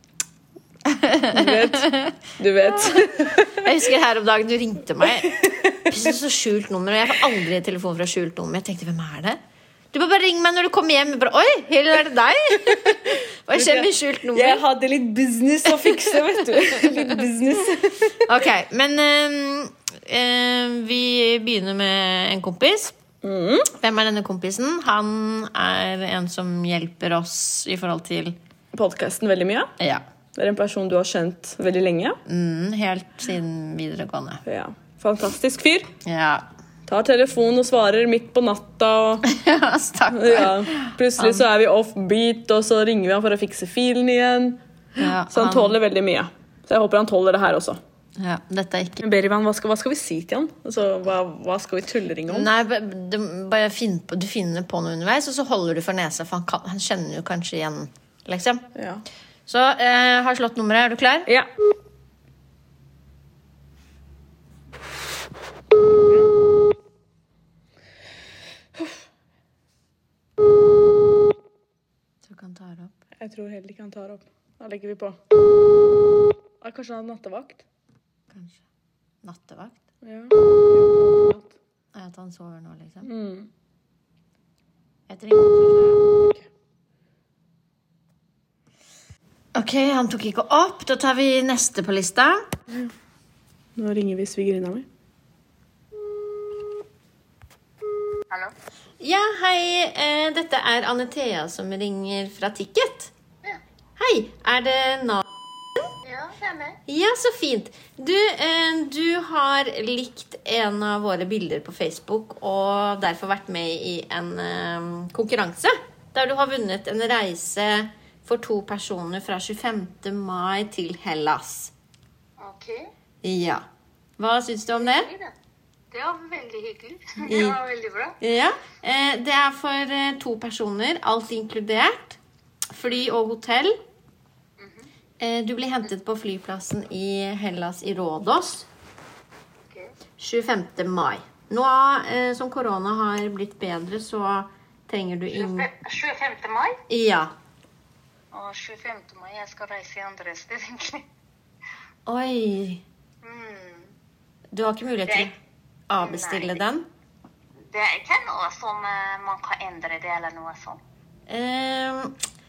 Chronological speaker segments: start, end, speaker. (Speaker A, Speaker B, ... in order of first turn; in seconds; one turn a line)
Speaker A: 0.8-2.2
Speaker B: 1.3-3.8
Speaker A: 2.8-9.4
Speaker B: 5.2-5.9
Speaker A: 9.9-14.6
Speaker B: 13.5-18.3
Speaker A: 15.8-17.2
Speaker A: 18.1-22.9
Speaker B: 23.2-23.7
Speaker A: 23.8-28.4
Speaker B: 28.7-29.7
Speaker A: 29.8-30.0
Speaker B: 30.3-32.2
Speaker A: 32.2-34.4
Speaker B: 34.4-35.9
Speaker A: 36.0-36.5
Speaker B: 36.9-39.2
Speaker A: 39.2-41.5
Speaker B: 40.1-47.8
Speaker A: 45.0-45.8
Speaker A: 48.2-49.0
Speaker B: 49.0-52.5
Speaker A: 52.3-58.6
Speaker B: 58.7-59.0
Speaker A: 59.5-61.3
Speaker A: 72.2-72.9
Speaker B: 73.2-75.2
Speaker B: 76.6-77.6
Speaker A: 78.3-78.6
Speaker A: 79.2-79.8
Speaker B: 80.0-81.5
Speaker A: 81.9-83.1
Speaker B: 83.0-83.5
Speaker A: 85.1-86.0
Speaker B: 86.2-86.5
Speaker A: 89.5-92.5
Speaker B: 93.8-94.9
Speaker A: 99.0-103.1
Speaker A: 104.0-105.2
Speaker C: 106.0-106.8
Speaker A: 106.9-121.7
Speaker C: 122.4-122.9
Speaker A: 123.2-123.6
Speaker A: 124.2-125.1
Speaker C: 124.8-125.3
Speaker C: 125.9-128.2
Speaker A: 127.2-127.6
Speaker A: 128.2-132.2
Speaker A: 132.7-133.8
Speaker C: 134.6-134.9
Speaker A: 135.2-138.7
Speaker A: 140.2-145.7
Speaker C: 145.3-146.8
Speaker A: 146.9-147.3
Speaker C: 148.3-151.0
Speaker A: 152.1-152.8
Speaker C: 153.2-153.9
Speaker A: 154.5-155.3
Speaker C: 155.1-155.3
Speaker A: 155.9-156.8
Speaker C: 156.0-156.6
Speaker C: 157.7-160.8
Speaker A: 161.3-162.1